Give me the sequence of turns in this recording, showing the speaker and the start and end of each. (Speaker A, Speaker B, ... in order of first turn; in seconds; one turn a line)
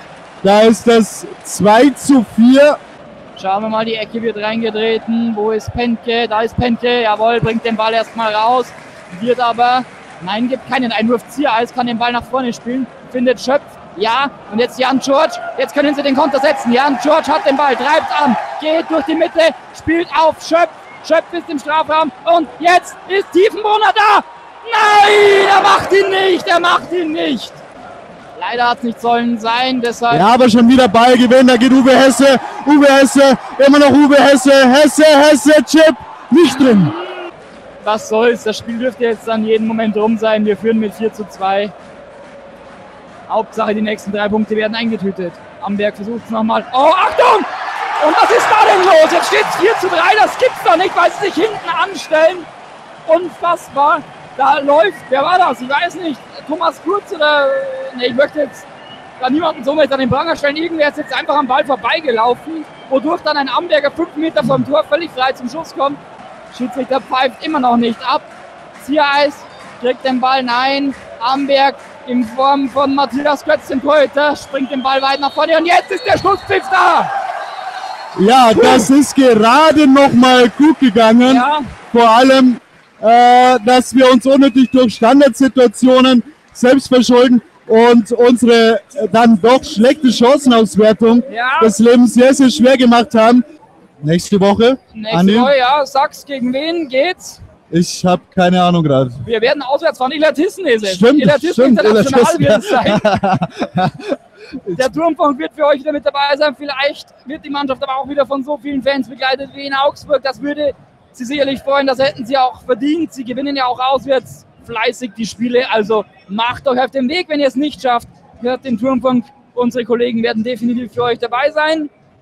Speaker A: 0.4-2.8
Speaker B: 3.4-27.6
Speaker B: 28.4-30.3
Speaker A: 30.1-37.0
Speaker B: 36.6-37.0
Speaker B: 37.8-41.7
Speaker B: 43.3-47.5
Speaker B: 48.0-52.5
Speaker B: 53.0-58.6
Speaker B: 59.2-66.0
Speaker B: 66.5-68.3
Speaker B: 68.8-77.1
Speaker A: 78.1-93.4
Speaker B: 78.5-78.9
Speaker B: 81.2-81.7
Speaker B: 91.3-91.8
Speaker A: 94.0-95.5
Speaker B: 94.9-97.4
Speaker A: 97.7-99.2
Speaker B: 99.2-103.0
Speaker A: 100.8-104.1
Speaker B: 104.7-121.9